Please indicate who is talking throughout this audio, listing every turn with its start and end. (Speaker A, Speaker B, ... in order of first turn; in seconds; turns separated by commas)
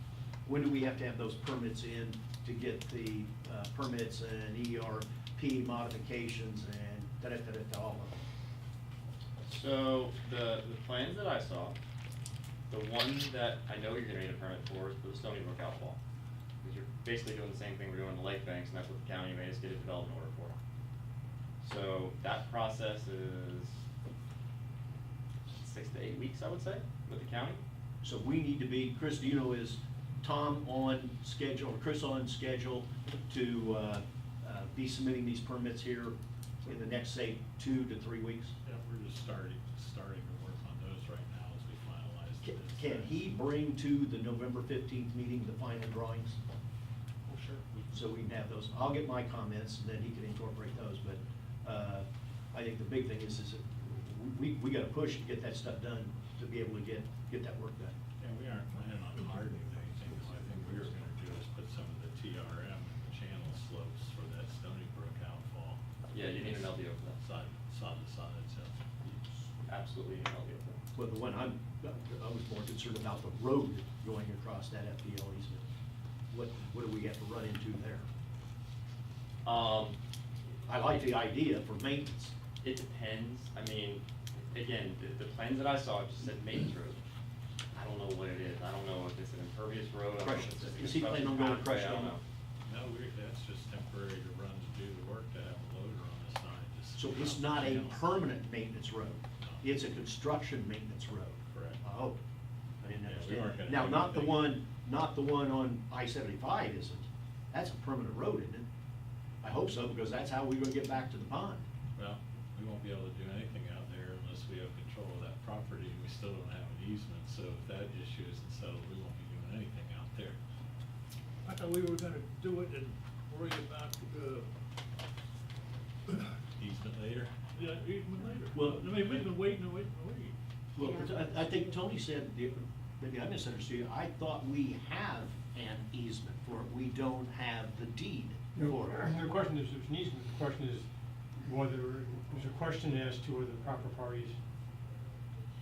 Speaker A: 0.5-8.1, Speaker B: 9.4-11.7, Speaker B: 12.7-16.0, Speaker B: 16.6-20.6, Speaker B: 21.6-23.8, Speaker B: 25.6-27.6, Speaker A: 28.0-38.5, Speaker C: 38.6-43.3, Speaker A: 42.4-46.4, Speaker C: 47.3-47.8, Speaker A: 47.9-58.0, Speaker C: 58.2-65.8, Speaker B: 66.1-67.2, Speaker C: 66.3-68.8, Speaker B: 69.6-70.8, Speaker A: 71.0-75.6, Speaker A: 76.3-78.1, Speaker B: 79.4-80.0, Speaker A: 80.7-82.3, Speaker B: 82.6-87.0, Speaker B: 87.7-92.2, Speaker A: 90.2-92.2, Speaker C: 92.6-98.0, Speaker A: 97.0-102.2, Speaker C: 101.4-101.8, Speaker A: 102.8-108.7, Speaker C: 103.0-104.5, Speaker A: 109.4-111.7, Speaker C: 112.0-120.4, Speaker D: 121.4-124.5, Speaker C: 126.4-127.3, Speaker D: 127.5-130.3, Speaker A: 128.5-129.2, Speaker A: 130.8-139.1, Speaker E: 138.5-144.4